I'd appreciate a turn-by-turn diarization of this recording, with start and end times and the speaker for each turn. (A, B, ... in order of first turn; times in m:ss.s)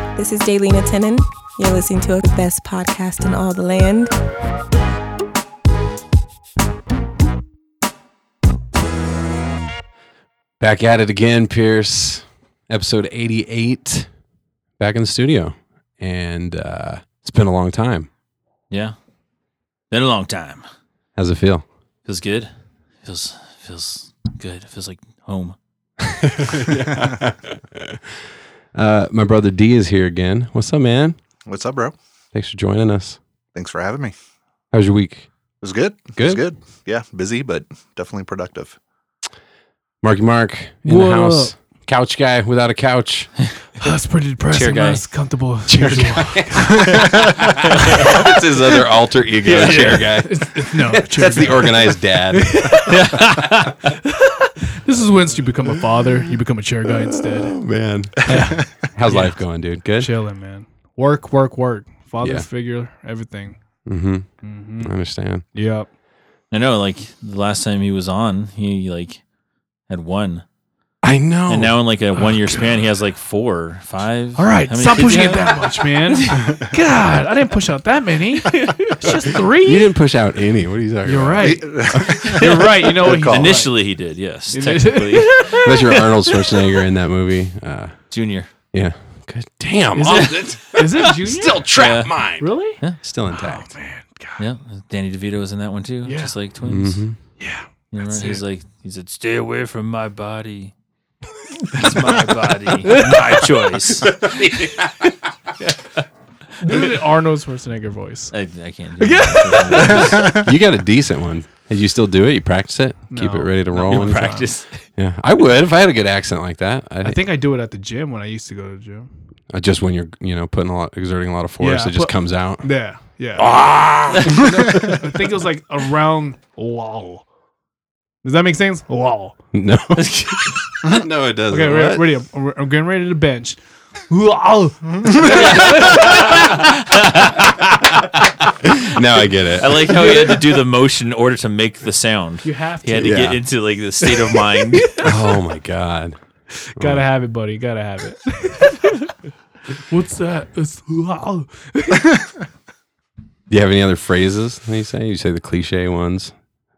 0:00.2-0:04.1 A
0:10.6-0:14.1 B
0:14.8-0:18.1 B
0:19.9-0:20.6 C
0:21.2-0:21.6 B
0:22.0-0:22.5 C
0:23.0-0:25.6 C
0:26.0-0:28.0 B
0:26.8-0:27.2 D
0:28.7-0:31.2 B
0:31.4-0:32.0 D
0:32.3-0:33.2 B
0:33.5-0:34.1 D
0:34.7-0:35.3 B
0:35.6-0:38.8 D
0:36.2-0:36.4 B
0:40.0-0:43.3 B
0:40.8-0:41.5 E
0:43.8-0:47.0 E
0:44.5-0:45.0 C
0:45.7-0:53.3 B
0:46.8-0:47.5 D
0:47.7-0:48.2 C
0:49.4-0:50.3 C
0:49.7-0:53.2 E
0:51.2-0:51.6 C
0:52.8-0:53.9 C
0:54.0-0:57.6 E
0:56.0-0:56.3 B
0:56.8-1:00.1 B
0:58.2-0:59.3 E
1:00.0-1:03.6 E
1:02.2-1:02.4 B
1:03.8-1:04.3 B
1:04.4-1:04.9 E
1:04.8-1:05.4 B
1:05.5-1:05.9 E
1:06.5-1:09.2 C
1:09.9-1:10.4 C
1:11.0-1:11.8 B
1:11.5-1:16.4 C
1:14.4-1:19.9 E
1:18.5-1:19.0 C
1:19.6-1:22.4 B
1:21.0-1:23.7 E
1:21.4-1:23.6 D
1:23.3-1:26.6 C
1:24.5-1:25.7 E
1:25.5-1:28.0 B
1:28.1-1:28.5 C
1:28.7-1:32.5 B
1:29.9-1:31.7 E
1:30.1-1:30.4 C
1:31.7-1:32.1 C
1:32.4-1:34.4 E
1:33.0-1:33.7 B
1:34.4-1:37.0 C
1:36.0-1:36.3 E
1:36.6-1:37.2 B
1:37.4-1:38.4 E
1:37.9-1:40.7 C
1:41.7-1:44.8 C
1:42.8-1:43.8 E
1:44.2-1:44.9 B
1:45.6-1:46.0 C
1:46.6-1:48.3 E
1:48.3-1:50.4 C
1:49.0-1:50.5 E
1:50.0-1:54.4 B
1:53.1-1:54.5 E
1:53.9-1:54.8 C
1:55.0-1:57.2 B
1:57.0-1:59.1 E
1:59.5-2:02.6 B
2:01.6-2:03.5 E
2:03.4-2:05.0 B
2:04.2-2:07.2 E
2:08.2-2:09.4 E
2:09.5-2:12.0 B
2:10.0-2:10.8 C
2:11.5-2:13.6 E
2:14.1-2:16.6 E
2:15.2-2:17.9 C
2:18.6-2:20.2 B
2:19.5-2:24.9 C
2:22.4-2:23.3 E
2:23.0-2:23.4 B
2:24.0-2:25.1 E
2:25.0-2:26.2 B
2:26.7-2:29.1 E
2:26.8-2:27.0 B
2:29.9-2:32.3 E
2:33.5-2:36.3 B